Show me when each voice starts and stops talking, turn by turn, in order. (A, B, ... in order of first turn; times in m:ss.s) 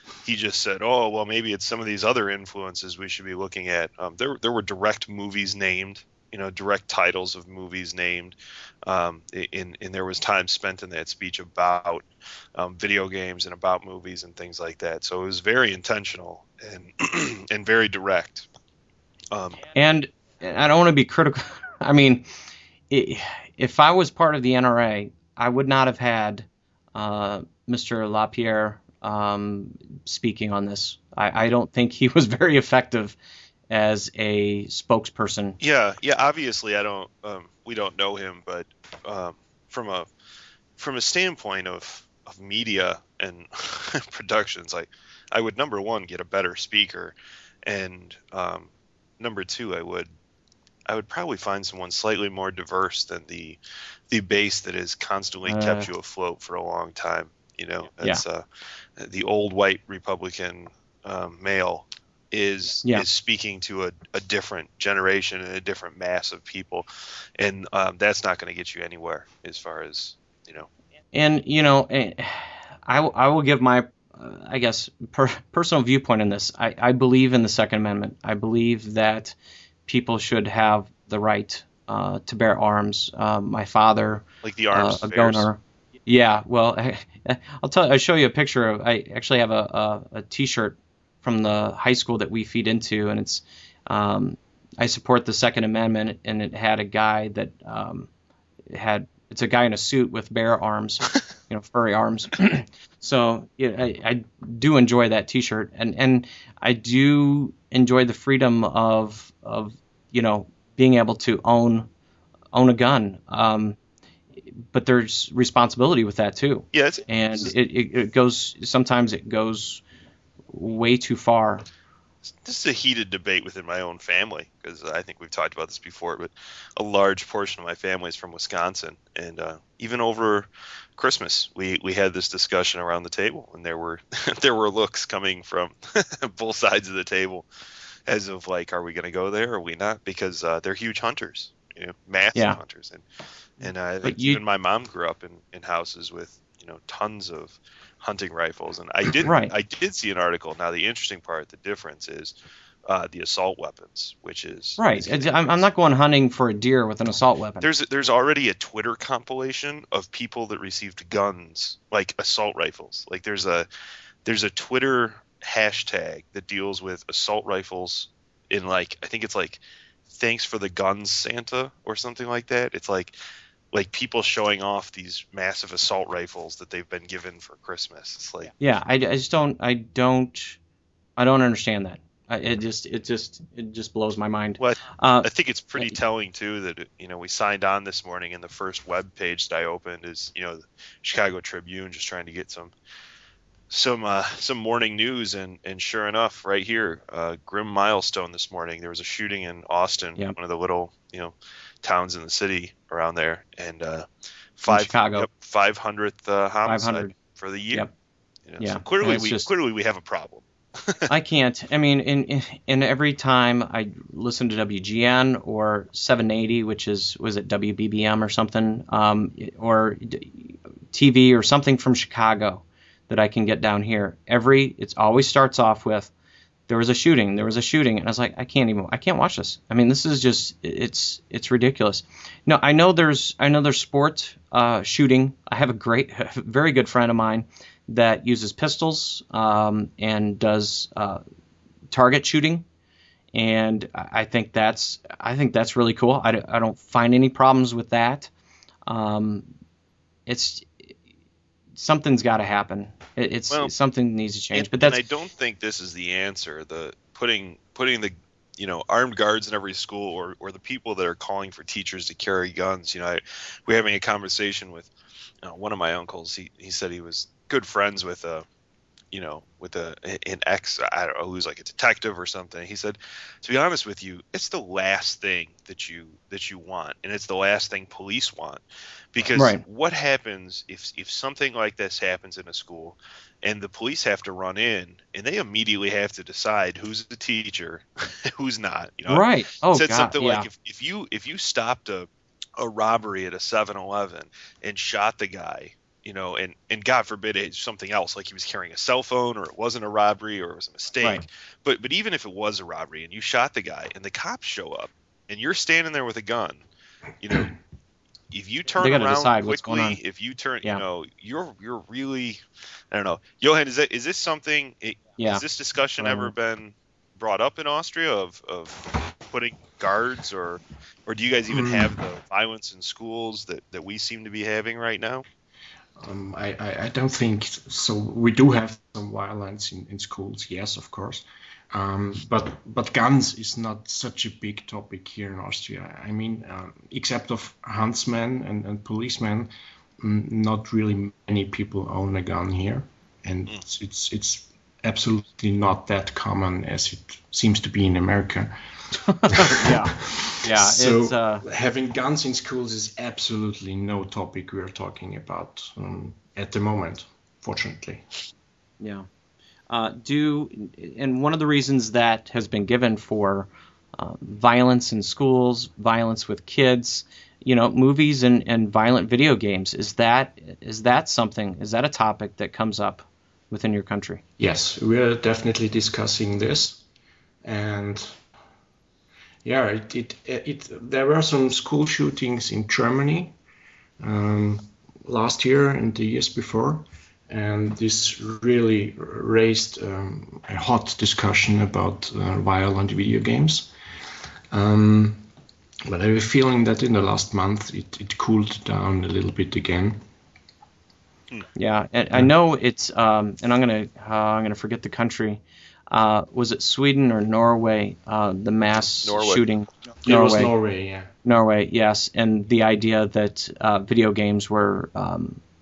0:00.2-0:18.5 A
0:19.3-0:19.6 A
0:19.7-0:22.2 B
0:22.9-0:33.2 B
0:33.7-0:35.6 B
0:35.6-0:40.1 A
0:40.8-0:47.1 A
0:47.6-0:50.1 A
0:50.9-0:53.6 A
0:54.1-0:58.4 A
0:55.5-0:55.9 B
0:59.0-1:10.7 A
1:11.1-1:19.3 B
1:19.9-1:38.1 B
1:24.4-1:25.5 A
1:38.7-1:51.9 B
1:52.5-1:53.8 B
1:54.7-1:59.8 B
1:56.7-1:57.5 A
2:00.5-2:01.6 B
2:02.4-2:17.5 A
2:18.1-2:23.0 A
2:23.6-2:32.3 A
2:23.6-2:24.4 B
2:29.2-2:29.5 B
2:32.8-2:35.6 A
2:34.8-2:37.7 B
2:37.6-2:43.7 A
2:44.2-2:53.1 A
2:53.7-2:58.5 A
2:58.6-3:00.6 B
3:01.2-3:06.0 B
3:04.6-3:12.7 A
3:13.7-3:24.0 A
3:24.6-3:27.8 A
3:24.7-3:25.3 B
3:26.6-3:27.1 B
3:28.5-3:31.1 A
3:28.6-3:29.5 B
3:31.1-3:46.1 B
3:46.7-4:01.2 B
4:01.9-4:02.6 B
4:03.3-4:08.3 B
4:08.9-4:09.4 B
4:10.3-4:10.7 B
4:11.8-4:15.0 B
4:14.5-4:24.9 A
4:25.4-4:28.4 A
4:29.1-4:38.6 A
4:39.1-5:06.6 A
4:39.3-4:39.6 B
4:49.1-4:50.5 B
5:07.2-5:07.6 A
5:08.3-5:25.2 A
5:08.8-5:10.0 B
5:15.2-5:15.4 B
5:16.0-5:16.3 B
5:21.5-5:21.9 C
5:26.0-5:48.6 C
5:49.1-5:51.4 B
5:49.3-5:58.2 C
5:58.8-5:59.1 B
5:59.7-6:14.2 B
6:14.4-6:16.8 C
6:17.4-6:18.2 C
6:19.4-6:23.4 C
6:24.0-6:33.7 C
6:34.5-6:35.3 C
6:35.8-6:40.0 C
6:41.5-6:50.5 B
6:48.9-6:49.4 A
6:50.0-6:51.1 C
6:51.2-6:55.4 B